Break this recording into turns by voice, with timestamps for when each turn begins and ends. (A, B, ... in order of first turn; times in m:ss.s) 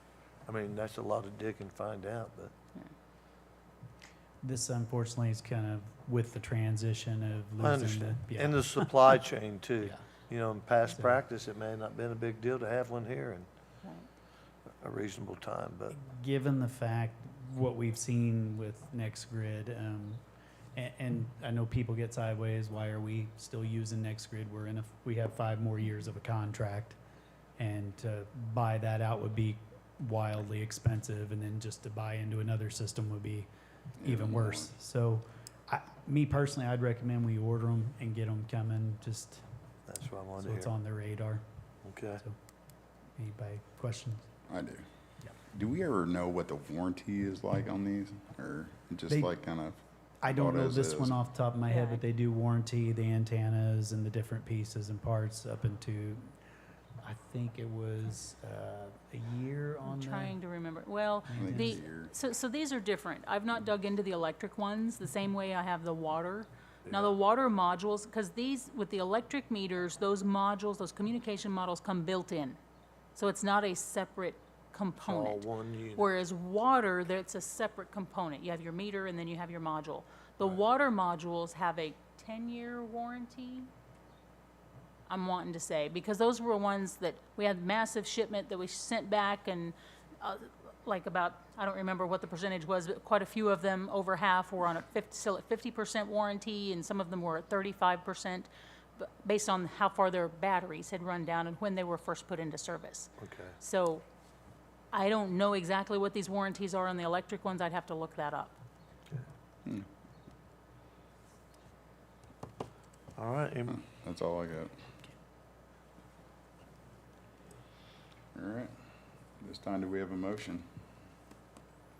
0:00.4-0:02.5 A
0:04.4-0:09.2 B
0:07.6-0:13.5 A
0:13.8-0:14.1 C
0:14.8-0:15.9 A
0:15.9-0:20.2 B
0:20.7-0:27.0 B
0:27.6-0:33.5 B
0:34.0-0:34.7 D
0:34.0-0:39.4 B
0:39.9-0:40.7 A
0:40.4-0:41.4 B
0:41.8-0:42.2 A
0:43.2-0:44.3 B
0:44.5-0:44.9 D
0:45.5-0:51.2 D
0:50.2-0:56.3 B
0:51.7-0:52.0 C
0:57.0-1:00.4 B
0:59.8-1:12.6 C
1:01.3-1:01.8 B
1:01.4-1:02.1 D
1:06.9-1:07.1 A
1:13.1-1:23.7 C
1:15.0-1:16.1 A
1:25.1-1:44.0 C
1:43.2-1:43.6 A
1:44.9-1:48.6 C
1:53.2-1:53.8 A
1:53.7-1:54.7 D
1:58.3-1:58.7 D
1:59.4-2:00.7 D